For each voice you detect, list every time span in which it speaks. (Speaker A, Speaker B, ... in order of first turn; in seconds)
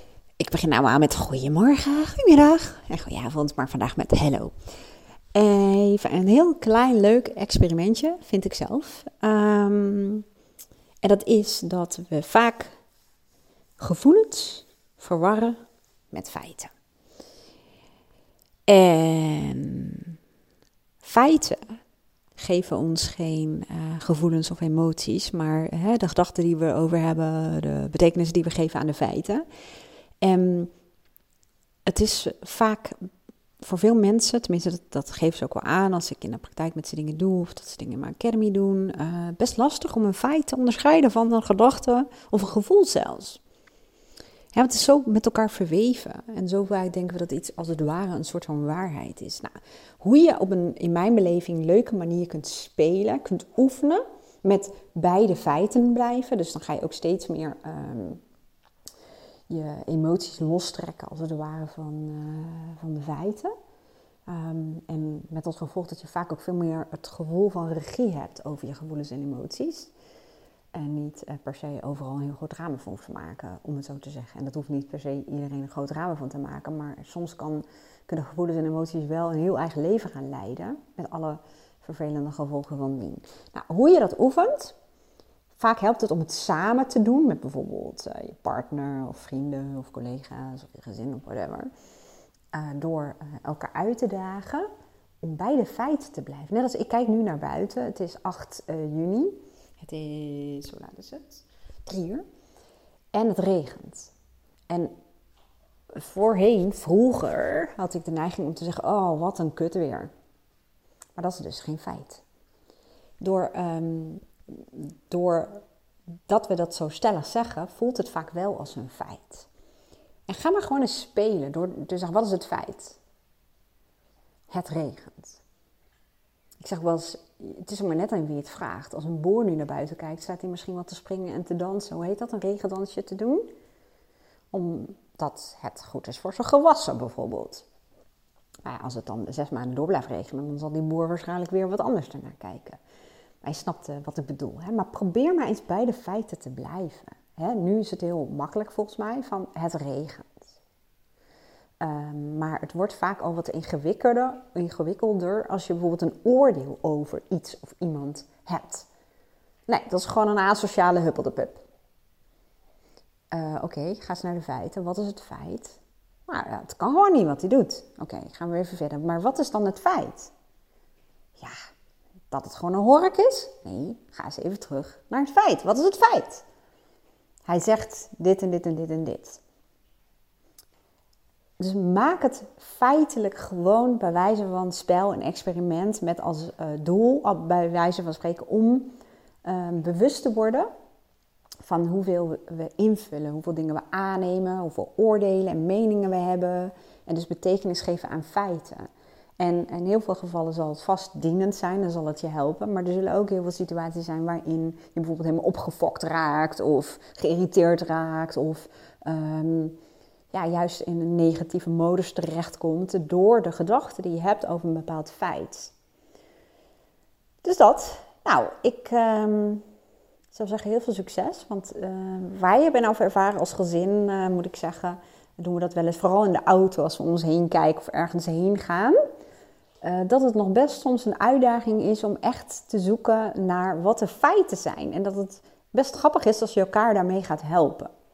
Speaker A: 0.4-4.5, 5.3-10.2, 11.0-12.7, 13.8-15.6, 16.1-16.7, 18.7-20.1, 21.0-21.8, 22.4-29.4, 30.2-30.7, 31.9-33.0, 33.6-43.4, 44.5-58.2, 59.5-63.5, 64.3-69.9, 70.7-84.7, 85.6-91.7, 92.5-94.7, 95.2-102.2, 103.1-104.1, 104.7-104.9, 105.9-110.1, 111.2-112.2, 113.2-115.6, 116.3-119.5, 120.3-123.0, 124.5-125.4, 126.6-133.5, 134.5-137.7, 138.6-142.8, 143.4-150.5, 151.8-158.9, 159.7-161.6, 163.3-170.3, 172.3-176.4, 177.5-179.4, 181.6-190.7, 191.6-198.9, 199.4-209.8, 210.3-215.7, 217.4-219.6, 220.3-229.0, 229.8-237.9